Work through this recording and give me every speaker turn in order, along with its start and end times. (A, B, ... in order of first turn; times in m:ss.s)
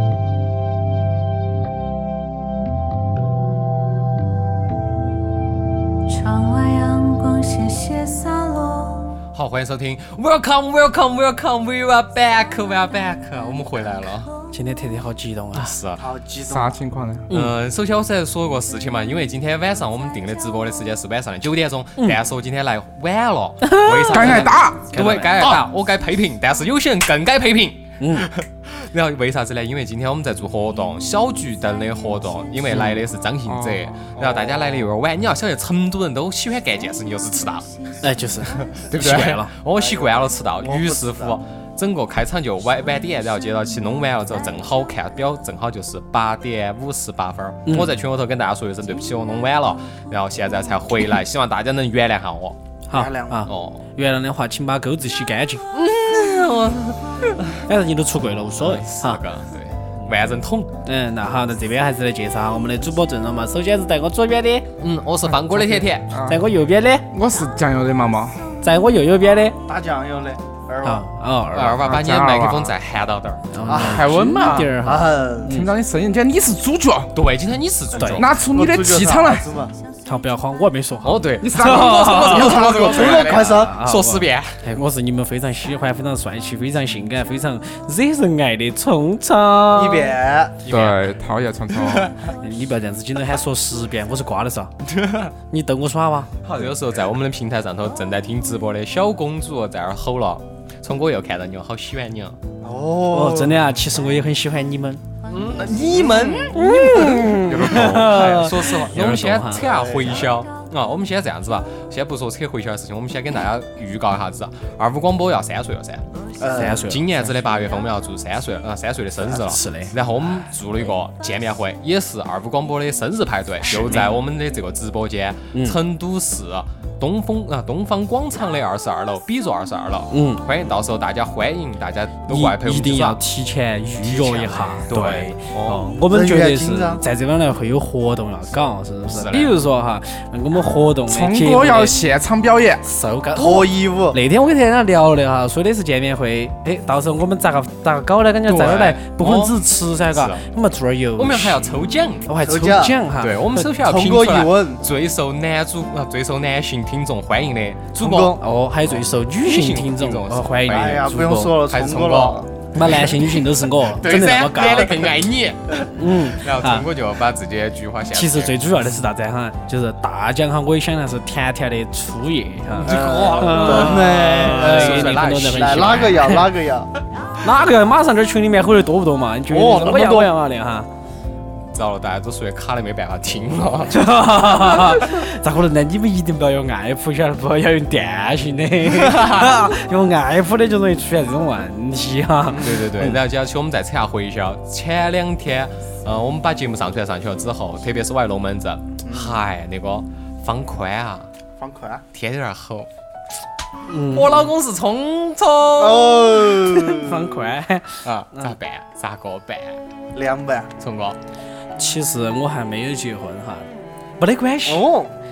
0:06.1-0:09.1 A
0:09.3-0:14.3 B
0:14.5-0:15.8 C
0:15.5-0:16.0 B
0:16.0-0:16.8 D
0:16.5-0:17.3 E
0:17.3-0:37.7 B
0:23.6-0:25.6 C
0:24.1-0:24.9 E
0:28.0-0:28.3 C
0:32.7-0:33.0 C
0:33.5-0:33.8 E
0:34.2-0:34.5 D
0:38.0-0:39.5 C
0:38.8-0:52.6 B
0:39.8-0:41.3 D
0:52.9-0:55.6 C
0:52.9-0:53.4 D
0:53.5-0:53.8 B
0:55.7-0:57.6 B
0:57.6-0:59.2 C
0:58.6-1:00.7 B
1:00.8-1:04.7 C
1:04.8-1:06.1 B
1:06.1-1:06.4 E
1:06.3-1:07.1 C
1:07.1-1:08.4 E
1:08.6-1:09.6 C
1:09.7-1:11.1 D
1:10.8-1:11.9 C
1:11.5-1:13.5 B
1:11.8-1:12.7 E
1:13.5-1:15.7 C
1:13.7-1:14.1 D
1:13.7-1:14.8 E
1:14.8-1:15.6 D
1:15.5-1:17.1 E
1:17.2-1:18.3 B
1:18.0-1:18.3 C
1:18.2-1:19.4 E
1:18.5-1:19.7 D
1:20.0-1:30.1 C
1:21.0-1:24.6 B
1:21.4-1:22.1 E
1:21.8-1:23.8 D
1:29.7-1:30.6 D
1:30.6-1:31.1 B
1:30.7-1:32.1 E
1:32.4-1:34.7 C
1:34.9-1:35.3 B
1:35.5-1:36.3 C
1:36.4-1:42.4 B
1:42.6-1:43.6 D
1:43.1-1:45.0 C
1:45.3-1:46.6 B
1:45.4-1:46.5 D
1:46.5-1:49.6 C
1:47.3-1:48.2 E
1:47.7-1:56.0 B
1:49.6-1:50.4 D
1:56.4-1:56.9 D
1:56.5-1:57.3 C
1:56.9-2:13.2 B
1:59.3-2:00.0 C
2:03.7-2:04.1 C
2:05.5-2:05.8 C
2:10.1-2:10.4 C
2:12.3-2:22.0 C
2:14.0-2:15.9 B
2:16.0-2:17.0 D
2:19.1-2:19.6 B
2:21.1-2:22.8 E
2:22.8-2:31.6 C
2:23.3-2:24.2 D
2:28.5-2:29.6 B
2:30.1-2:30.4 B
2:31.2-2:32.3 B
2:32.2-2:33.7 C
2:32.4-2:33.0 D
2:33.2-2:42.4 B
2:33.8-2:34.8 D
2:38.0-2:38.4 D
2:38.4-2:41.6 C
2:40.7-2:42.7 D
2:42.7-2:45.0 C
2:43.9-2:48.6 B
2:45.9-2:46.9 C
2:48.1-2:56.5 C
2:52.8-2:56.3 B
2:52.8-2:56.9 D
2:57.4-3:00.9 C
2:59.5-3:00.3 D
3:01.7-3:04.0 B
3:03.9-3:13.2 C
3:08.9-3:09.7 B
3:12.5-3:21.3 B
3:19.1-3:19.4 D
3:21.6-3:22.0 D
3:22.1-3:22.9 B
3:23.9-3:24.5 C
3:24.1-3:26.6 B
3:25.8-3:27.3 D
3:26.9-3:28.5 C
3:28.0-3:29.8 B
3:30.2-3:30.7 D
3:30.8-3:31.2 B
3:31.8-3:33.7 C
3:34.2-3:34.8 C
3:34.6-3:35.1 D